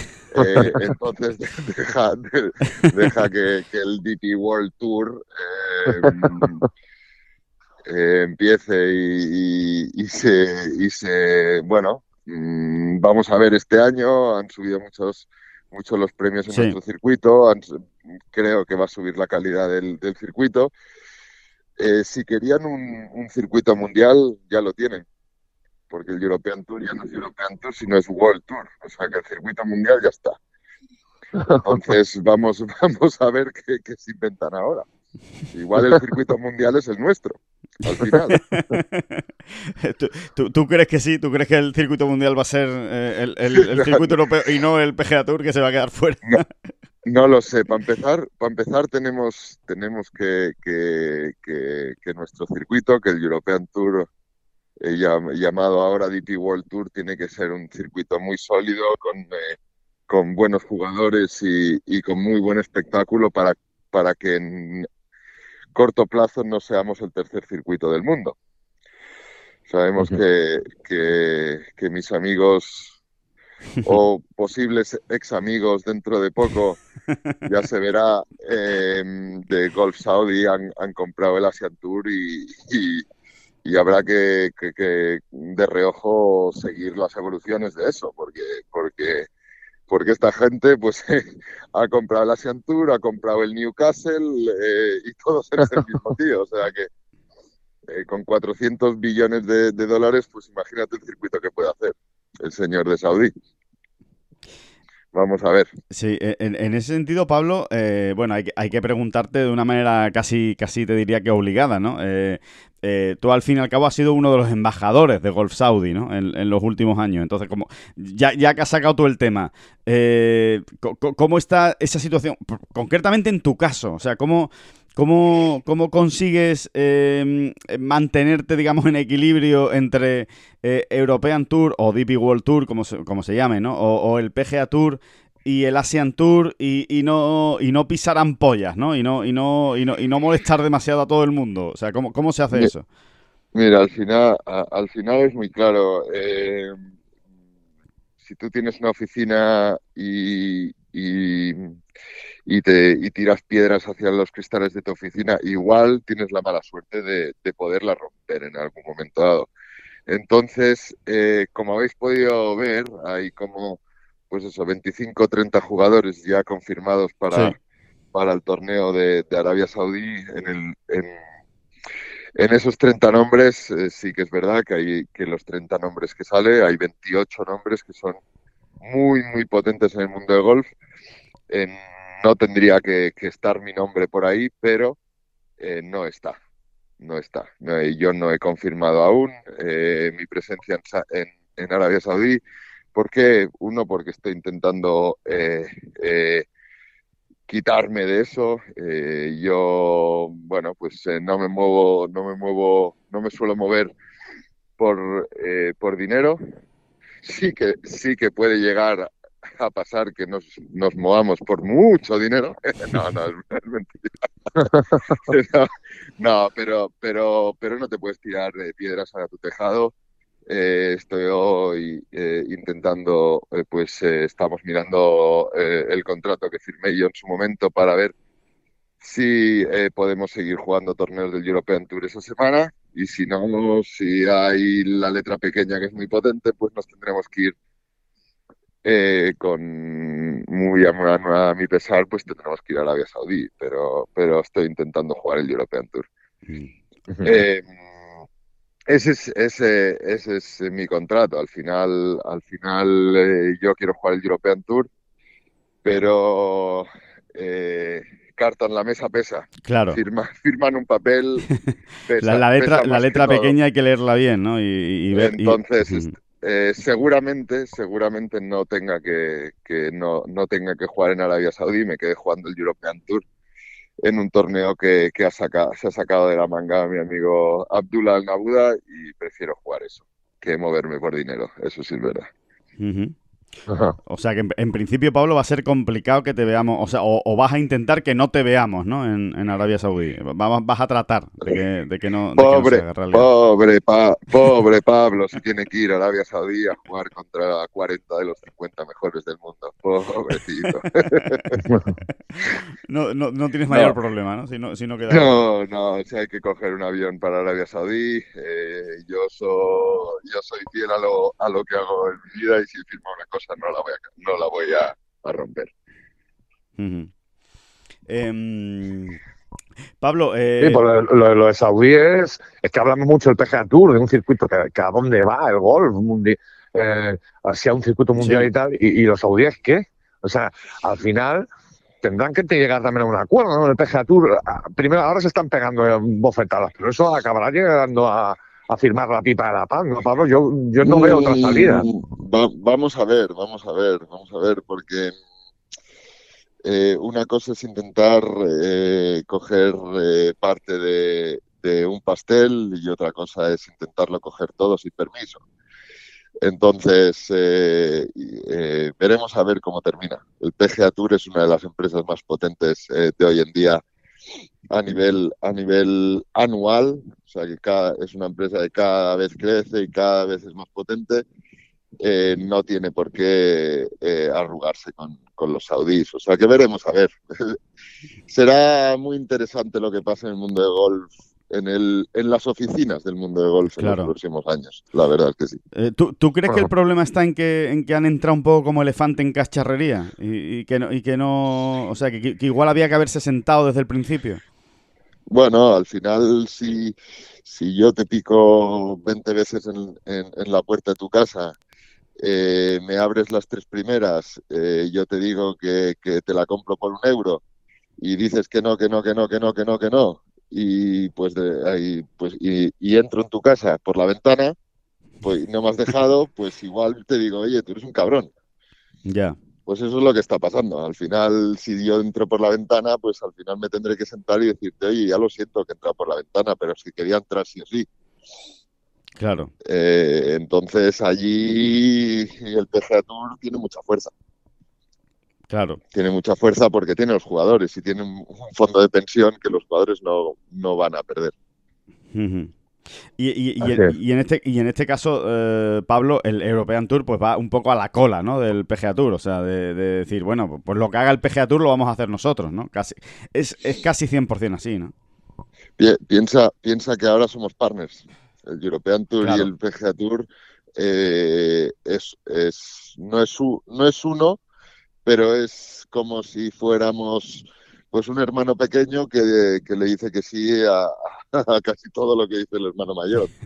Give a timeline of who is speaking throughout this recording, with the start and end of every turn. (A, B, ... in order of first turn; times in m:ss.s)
0:00.3-0:06.6 A
0:07.9-0:20.7 A
0:16.5-0:16.8 B
0:21.8-0:25.1 A
0:25.9-0:30.4 A
0:31.6-0:34.9 A
0:35.5-0:38.4 A
0:38.1-0:46.7 B
0:43.6-0:44.1 A
0:47.0-0:54.1 A
0:54.8-0:59.6 A
1:00.1-1:04.9 A
1:05.8-1:08.4 A
1:09.7-1:13.0 A
1:13.8-1:16.8 A
1:17.4-1:23.0 A
1:23.6-1:29.3 A
1:29.9-1:36.9 A
1:37.9-1:43.3 A
1:45.1-1:45.7 A
1:45.9-2:22.8 B
2:23.6-2:26.8 A
2:28.2-2:31.8 A
2:32.5-2:39.5 A
2:40.1-2:47.6 A
2:48.1-2:51.2 A
2:52.4-2:58.2 A
2:58.8-3:00.7 A
3:01.5-3:05.0 A
3:05.6-3:06.4 A
3:07.0-3:12.4 A
3:12.9-3:16.5 A
3:17.5-3:24.0 A
3:24.8-3:26.4 A
3:27.2-3:39.9 A
3:40.5-3:48.1 A
3:49.0-3:57.6 A
3:58.8-4:06.1 A
4:07.2-4:07.7 A
4:08.9-4:14.9 A
4:15.8-4:21.5 A
4:19.6-4:20.0 B
4:22.1-4:23.5 A
4:22.2-4:26.1 B
4:25.1-4:33.3 A
4:34.0-4:42.3 A
4:42.8-4:43.2 B
4:43.7-4:44.0 C
4:44.1-4:53.3 B
4:52.4-5:01.6 A
5:01.6-5:01.9 C
5:02.8-5:05.4 B
5:05.1-5:15.7 A
5:16.8-5:17.1 B
5:18.1-5:19.2 B
5:20.0-5:20.8 B
5:20.6-5:31.5 C
5:28.2-5:28.5 B
5:32.0-5:41.9 C
5:40.8-5:45.1 A
5:46.6-5:55.4 A
5:56.4-6:03.8 A
6:04.7-6:11.2 A
6:12.0-6:17.6 A
6:18.3-6:25.6 A
6:23.8-6:24.1 B
6:25.7-6:34.4 B
6:35.3-6:41.6 A
6:42.2-6:47.4 A
6:48.0-6:54.6 A
6:55.2-6:58.3 A
6:59.1-6:59.4 B
6:59.7-7:07.9 A
7:09.2-7:09.5 B
7:09.6-7:14.1 A
7:15.5-7:15.8 B
7:15.9-7:21.3 A
7:22.1-7:22.5 B
7:23.2-7:34.9 B
7:23.6-7:23.9 C
7:35.8-7:44.4 A
7:39.2-7:39.5 B
7:45.0-7:53.3 A